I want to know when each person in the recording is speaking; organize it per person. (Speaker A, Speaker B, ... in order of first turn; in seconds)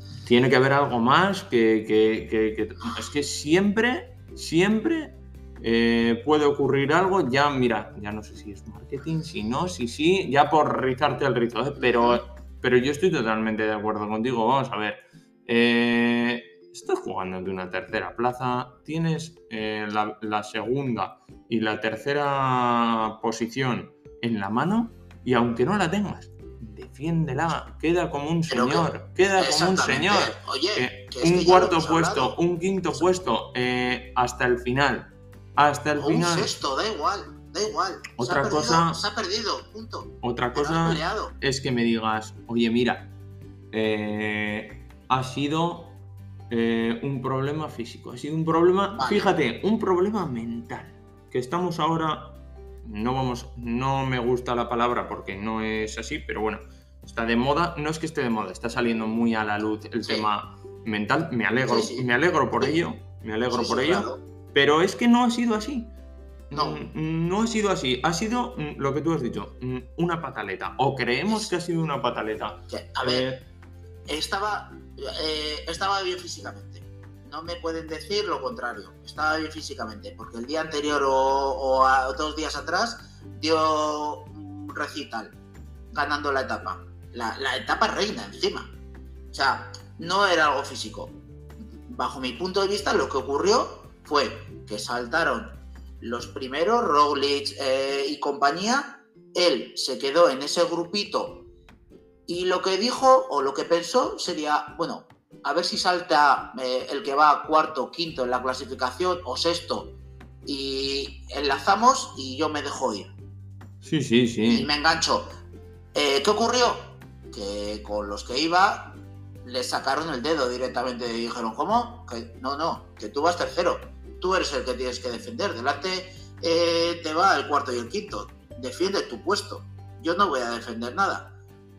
Speaker A: 0.2-36.5, 38.2-39.0, 40.2-43.1, 43.7-65.9, 66.5-73.4, 113.8-114.7
Speaker B: 11.8-12.2, 28.5-32.4, 36.0-41.4, 48.9-49.4, 61.7-62.8, 63.5-64.2, 66.5-66.8, 72.7-73.3, 74.1-85.3, 85.9-88.7, 89.3-91.2, 91.9-101.5, 102.3-110.0, 110.5-113.1, 114.5-115.3, 115.9-131.3